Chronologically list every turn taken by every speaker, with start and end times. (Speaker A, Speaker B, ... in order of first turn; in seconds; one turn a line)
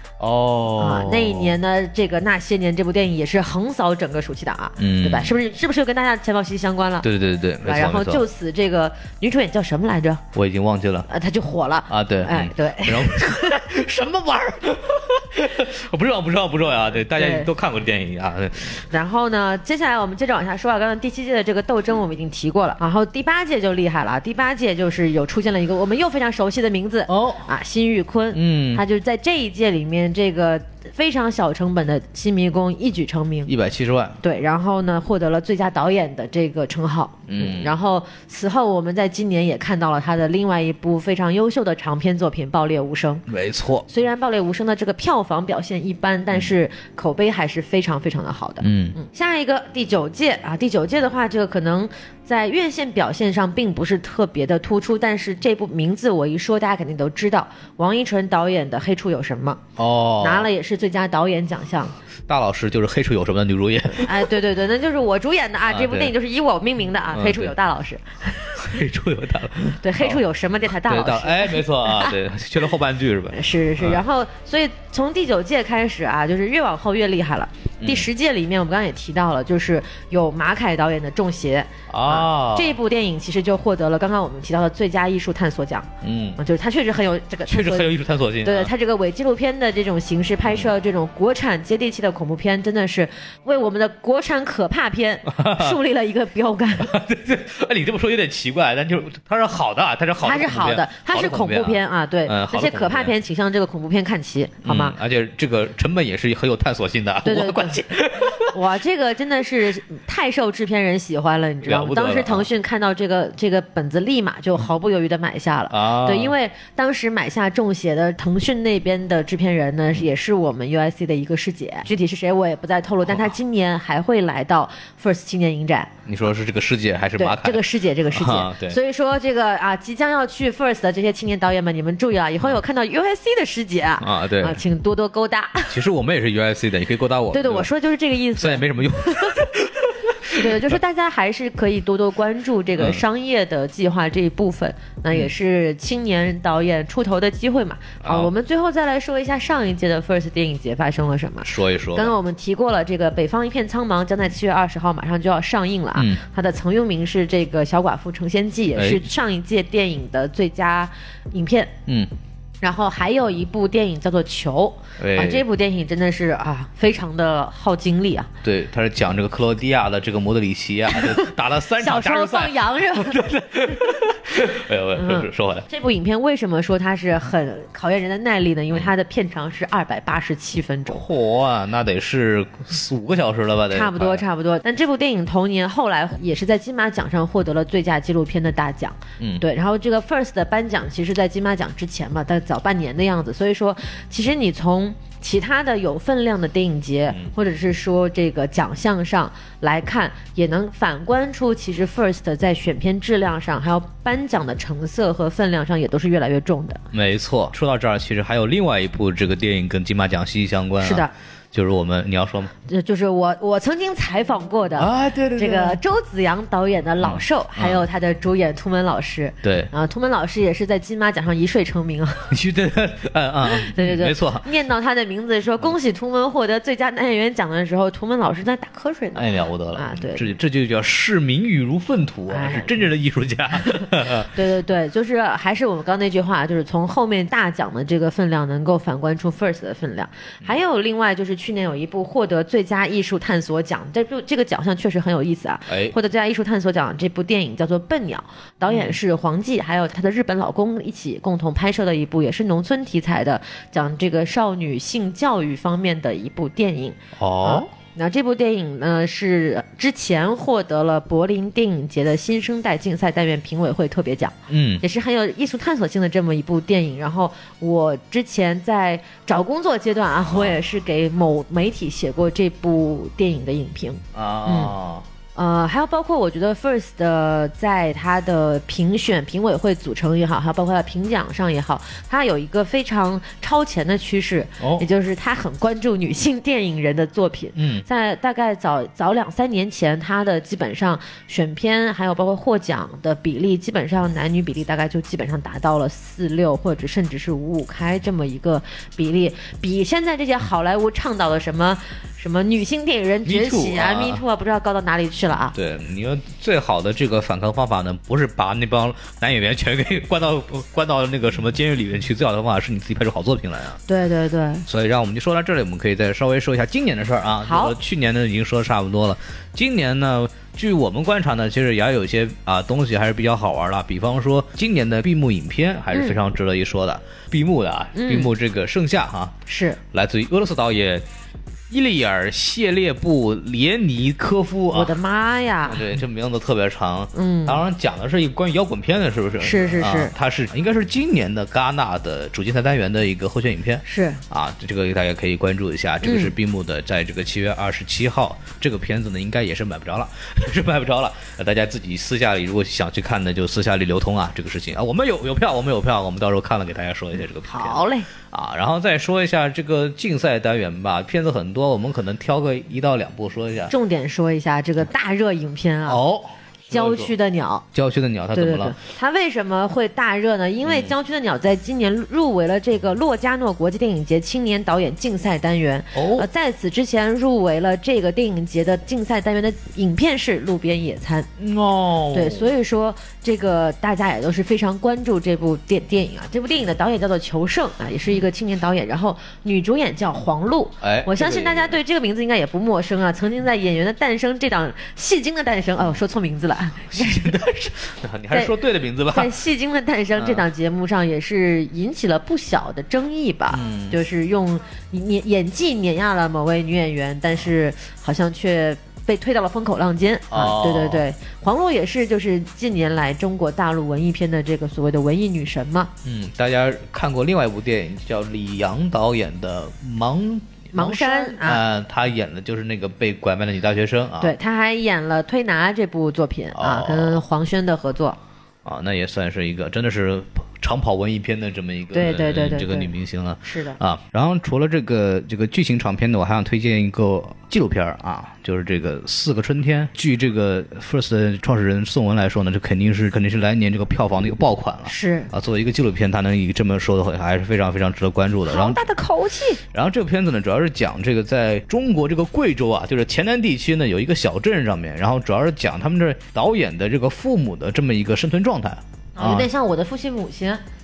Speaker A: 0.2-1.6
Speaker B: 0.8-7.1
Speaker A: 4.8-5.3
Speaker A: 7.0-8.2
Speaker B: 7.6-10.2
Speaker A: 10.3-11.1
Speaker B: 11.1-13.6
Speaker A: 11.9-18.9
Speaker B: 17.1-17.5
Speaker B: 18.9-33.5
Speaker A: 27.1-27.5
Speaker A: 28.3-28.8
Speaker A: 33.5-34.2
Speaker B: 34.2-43.2
Speaker A: 37.3-37.7
Speaker A: 43.3-43.9
Speaker B: 43.9-59.6
Speaker A: 48.6-49.0
Speaker A: 59.8-60.5
Speaker B: 60.2-62.0
Speaker A: 62.3-64.3
Speaker B: 64.0-68.6
Speaker A: 65.7-66.1
Speaker A: 67.1-67.5
Speaker A: 68.5-74.0
Speaker B: 69.8-72.2
Speaker B: 73.3-96.9
Speaker A: 77.8-78.1
Speaker A: 81.9-82.8
Speaker A: 86.0-86.4
Speaker A: 87.5-88.7
Speaker A: 95.3-95.8
Speaker A: 96.8-103.1
Speaker B: 100.2-105.0
Speaker A: 104.6-108.5
Speaker B: 107.2-107.8
Speaker B: 108.5-125.9
Speaker A: 111.6-112.5
Speaker A: 115.7-116.3
Speaker A: 123.1-123.3
Speaker A: 126.1-128.8
Speaker B: 127.2-135.8
Speaker A: 134.0-134.6
Speaker A: 135.7-137.7
Speaker B: 137.3-139.4
Speaker A: 138.4-140.5
Speaker B: 140.3-161.7
Speaker A: 148.0-148.3
Speaker A: 151.4-152.1
Speaker A: 155.9-156.2
Speaker A: 158.8-159.0
Speaker B: 162.6-168.3
Speaker A: 165.0-165.4
Speaker A: 168.4-175.7
Speaker B: 170.9-173.2
Speaker B: 174.9-181.0
Speaker A: 180.9-184.2
Speaker B: 183.7-206.8
Speaker A: 189.2-189.4
Speaker A: 206.9-212.5
Speaker B: 210.8-211.1
Speaker B: 212.7-222.3
Speaker A: 214.8-215.8
Speaker A: 217.0-217.8
Speaker A: 219.4-219.7
Speaker A: 222.3-224.5
Speaker B: 223.4-230.3
Speaker A: 229.2-234.3
Speaker B: 232.3-232.9
Speaker B: 233.6-274.7
Speaker A: 245.7-245.9
Speaker A: 248.7-249.0
Speaker A: 257.2-257.7
Speaker A: 264.5-264.8
Speaker A: 270.3-270.6
Speaker A: 274.1-275.1
Speaker B: 275.4-305.6
Speaker A: 284.6-284.9
Speaker A: 287.6-287.9
Speaker A: 303.2-304.2
Speaker A: 305.5-313.8
Speaker B: 313.9-314.6
Speaker A: 314.7-329.4
Speaker B: 317.4-317.8
Speaker B: 327.9-328.3
Speaker B: 329.5-329.8
Speaker A: 329.9-331.1
Speaker A: 331.7-335.0
Speaker B: 334.7-336.0
Speaker A: 335.7-363.7
Speaker B: 337.1-337.6
Speaker B: 339.4-340.1
Speaker B: 343.9-344.2
Speaker B: 346.0-346.3
Speaker B: 357.4-358.1
Speaker B: 363.7-366.0
Speaker A: 365.9-367.1
Speaker B: 366.7-367.6
Speaker A: 367.7-368.8
Speaker B: 368.3-381.3
Speaker A: 370.6-370.9
Speaker A: 375.9-376.3
Speaker A: 381.4-382.5
Speaker B: 382.1-397.4
Speaker A: 390.8-391.8
Speaker A: 396.9-399.3
Speaker B: 399.1-415.9
Speaker A: 400.2-400.4
Speaker A: 403.5-404.0
Speaker A: 410.3-411.0
Speaker A: 416.0-424.4
Speaker B: 420.7-421.6
Speaker B: 424.2-428.2
Speaker A: 426.6-427.2
Speaker A: 428.6-448.8
Speaker B: 431.9-432.9
Speaker B: 433.4-433.8
Speaker B: 444.9-445.3
Speaker B: 448.5-449.6
Speaker A: 449.7-459.5
Speaker B: 459.2-460.6